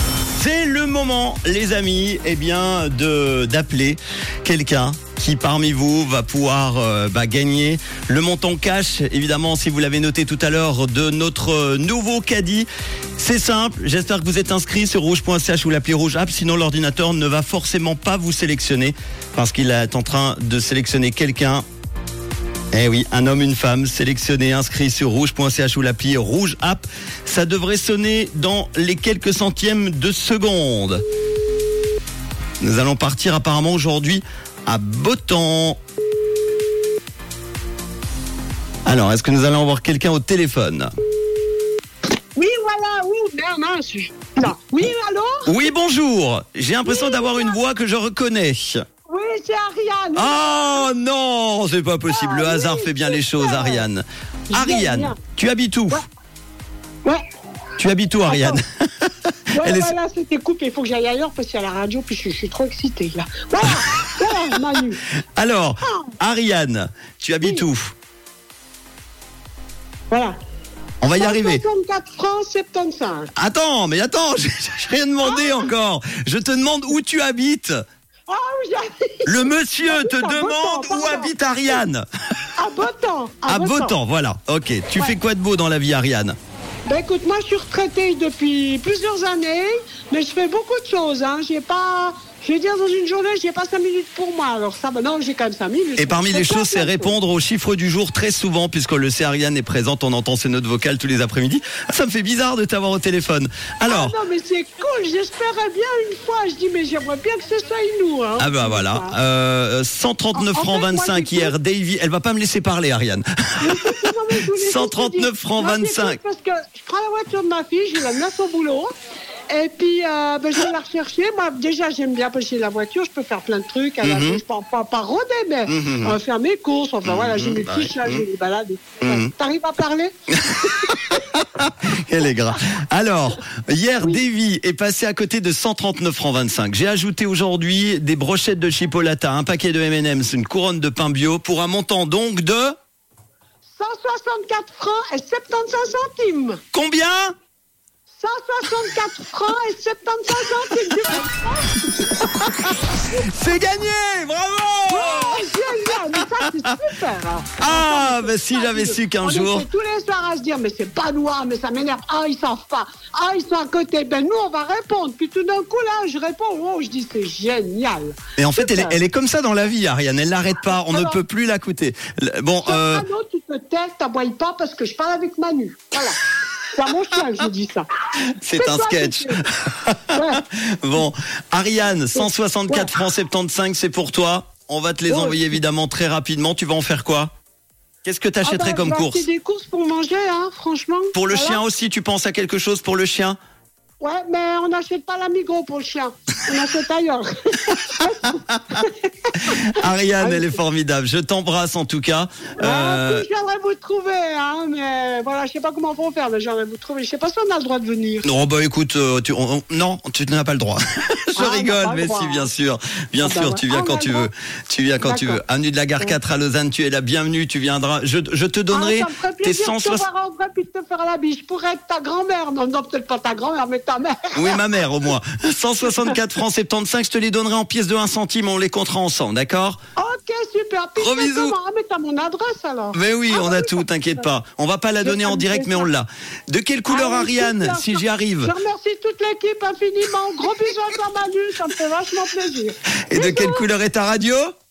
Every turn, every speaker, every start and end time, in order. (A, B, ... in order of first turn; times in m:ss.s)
0:00.4-0:21.6 A
0:22.7-0:31.0 A
0:32.6-0:35.8 A
0:38.9-0:40.9 A
0:42.4-0:45.5 B
0:45.5-0:48.8 A
0:46.8-0:47.5 B
0:49.1-0:50.9 B
0:50.2-0:56.0 A
0:52.1-0:53.9 B
0:54.5-0:55.2 B
0:57.8-0:59.9 A
0:58.2-0:58.6 B
0:59.5-1:05.0 B
1:03.6-1:04.4 A
1:05.4-1:07.9 A
1:10.1-1:10.4 B
1:11.0-1:11.6 A
1:11.0-1:13.3 B
1:13.4-1:17.8 A
1:15.2-1:15.6 B
1:18.3-1:21.8 B
1:19.3-1:22.0 A
1:22.6-1:24.0 B
1:23.5-1:26.4 A
1:26.9-1:37.2 B
1:36.0-1:44.2 A
1:43.8-1:49.2 B
1:48.4-1:53.9 A
1:50.3-1:51.6 B
1:53.6-1:58.9 B
1:54.5-1:56.2 A
1:59.5-2:10.1 B
2:04.0-2:04.4 A
2:05.7-2:06.2 A
2:07.0-2:08.2 A
2:09.0-2:09.3 A
2:10.3-2:22.8 A
2:10.7-2:10.9 B
2:23.7-2:26.6 B
2:26.7-2:27.3 A
2:28.1-2:31.8 B
2:32.0-2:32.8 A
2:33.3-2:36.2 A
2:34.9-2:49.0 B
2:37.6-2:39.7 A
2:48.4-2:53.1 A
2:50.7-2:51.2 B
2:52.6-2:57.9 B
2:58.4-3:00.2 A
2:58.6-2:59.4 B
3:00.1-3:00.4 B
3:00.8-3:07.3 A
3:02.1-3:02.9 B
3:05.1-3:05.6 B
3:08.0-3:09.2 A
3:08.4-3:11.6 B
3:11.1-3:13.4 A
3:14.0-3:20.6 B
3:18.5-3:18.8 A
3:19.7-3:23.2 A
3:22.6-3:28.3 B
3:28.2-3:40.0 A
3:31.4-3:32.5 B
3:33.2-3:34.3 B
3:35.0-3:35.4 B
3:38.7-3:44.6 B
3:44.3-3:49.8 A
3:50.0-3:54.2 B
3:51.0-3:51.6 A
3:52.9-3:58.5 A
3:55.0-3:55.9 B
3:56.9-4:03.6 B
4:03.1-4:04.5 A